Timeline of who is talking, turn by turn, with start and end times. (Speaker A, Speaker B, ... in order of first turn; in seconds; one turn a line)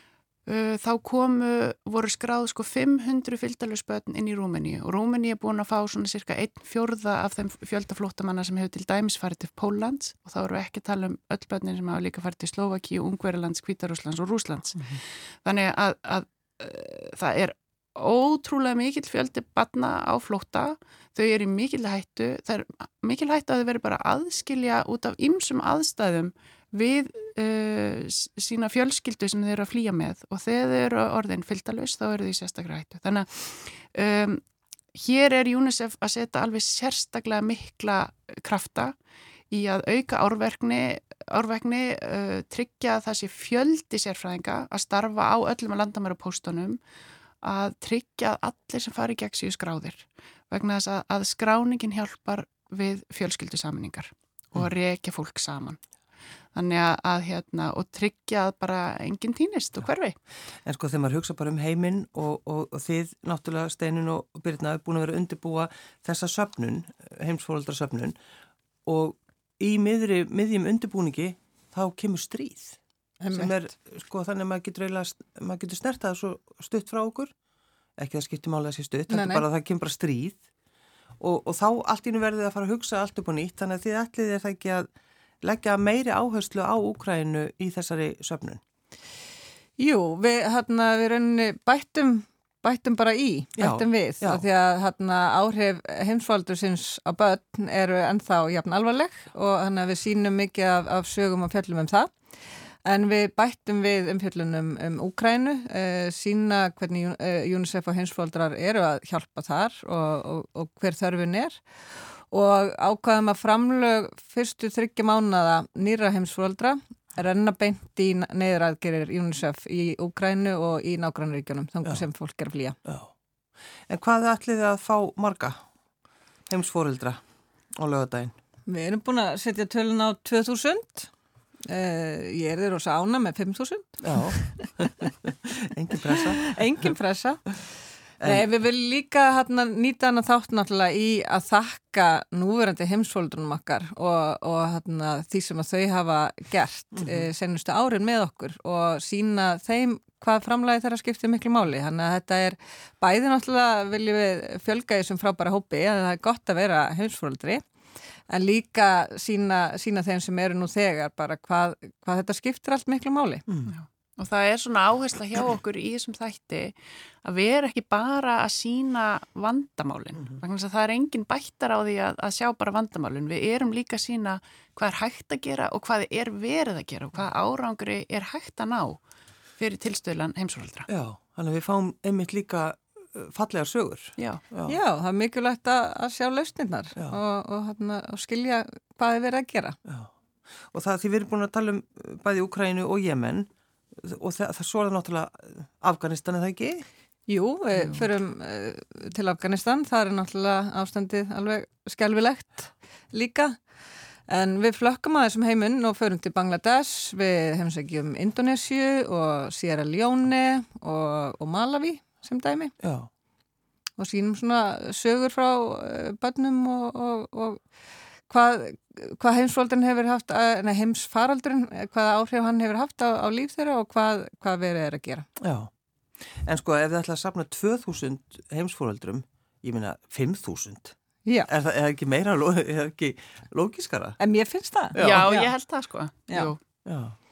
Speaker A: 0.5-34.4
Speaker A: 34.9-38.9
Speaker A: 39.5-46.8
Speaker A: 47.4-55.8
Speaker A: 56.5-60.1
Speaker B: 60.6-68.2
Speaker B: 68.8-72.8
Speaker C: 73.2-73.5
Speaker B: 73.3-77.3
Speaker B: 78.0-80.4
Speaker C: 79.1-79.4
Speaker B: 81.2-84.9
Speaker B: 85.4-88.6
Speaker C: 89.8-102.1
Speaker B: 93.6-94.4
Speaker C: 102.8-122.8
Speaker B: 122.8-123.1
Speaker B: 123.9-125.6
Speaker B: 126.5-127.2
Speaker B: 127.8-128.3
Speaker C: 128.7-131.1
Speaker C: 131.6-134.7
Speaker B: 134.0-136.6
Speaker C: 136.4-137.5
Speaker B: 138.2-138.4
Speaker C: 138.2-157.6
Speaker B: 146.9-147.3
Speaker C: 158.3-163.4
Speaker B: 163.5-163.7
Speaker A: 163.7-179.0
Speaker A: 179.6-180.9
Speaker B: 180.9-184.8
Speaker C: 184.7-189.8
Speaker B: 189.8-190.1
Speaker B: 190.6-196.8
Speaker C: 197.3-203.6
Speaker B: 197.7-198.0
Speaker C: 204.3-212.7
Speaker B: 212.8-213.1
Speaker C: 214.0-217.6
Speaker C: 218.3-225.3
Speaker B: 225.4-225.7
Speaker B: 226.4-230.9
Speaker B: 231.5-234.2
Speaker C: 234.2-235.5
Speaker B: 234.9-235.3
Speaker A: 235.0-236.6
Speaker B: 236.8-237.2